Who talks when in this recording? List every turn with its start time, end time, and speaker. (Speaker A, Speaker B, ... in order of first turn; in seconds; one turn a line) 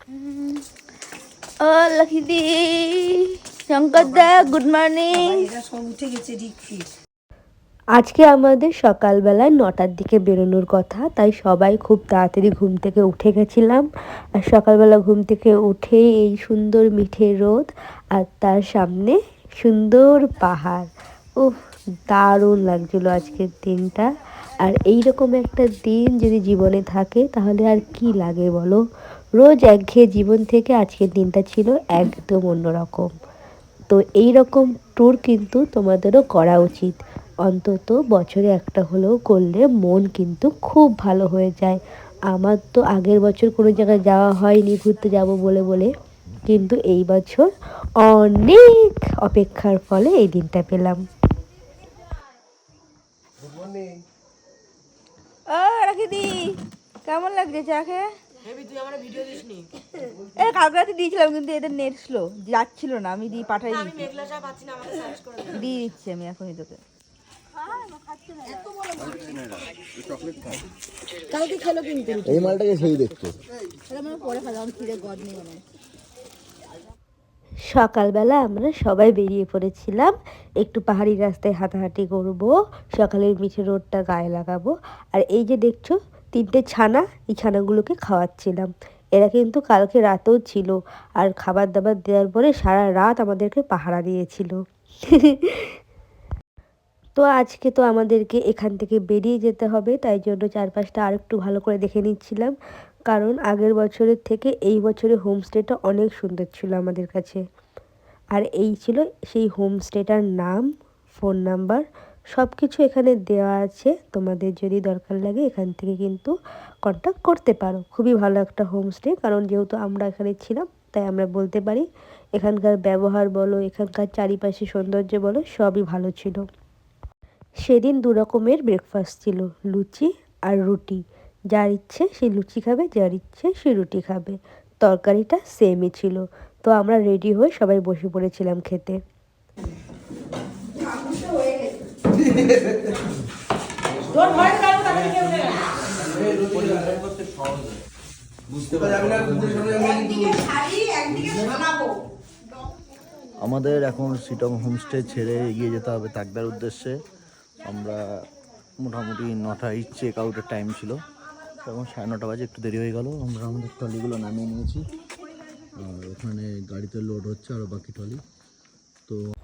Speaker A: 0.2-0.6
Speaker A: 1.6-6.8
Speaker B: 8.0-13.9
Speaker B: 14.4-20.9
Speaker B: 21.4-24.1
Speaker B: 24.6-28.8
Speaker B: 29.4-33.1
Speaker B: 33.9-41.8
Speaker B: 42.3-45.9
Speaker B: 46.5-47.5
Speaker B: 48.0-51.0
Speaker A: 55.5-56.4
Speaker A: 57.0-58.1
Speaker A: 60.4-66.8
Speaker A: 71.3-73.0
Speaker C: 72.3-73.2
Speaker A: 73.9-75.6
Speaker B: 77.7-94.5
Speaker B: 95.1-95.7
Speaker B: 97.2-102.5
Speaker B: 103.1-107.4
Speaker B: 108.3-116.3
Speaker B: 116.8-126.4
Speaker B: 127.6-139.0
Speaker A: 141.1-141.5
Speaker A: 144.5-144.8
Speaker C: 148.5-149.8
Speaker A: 149.9-150.9
Speaker C: 153.4-156.9
Speaker C: 157.7-158.0
Speaker C: 158.8-160.9
Speaker C: 161.6-164.8
Speaker C: 165.8-168.2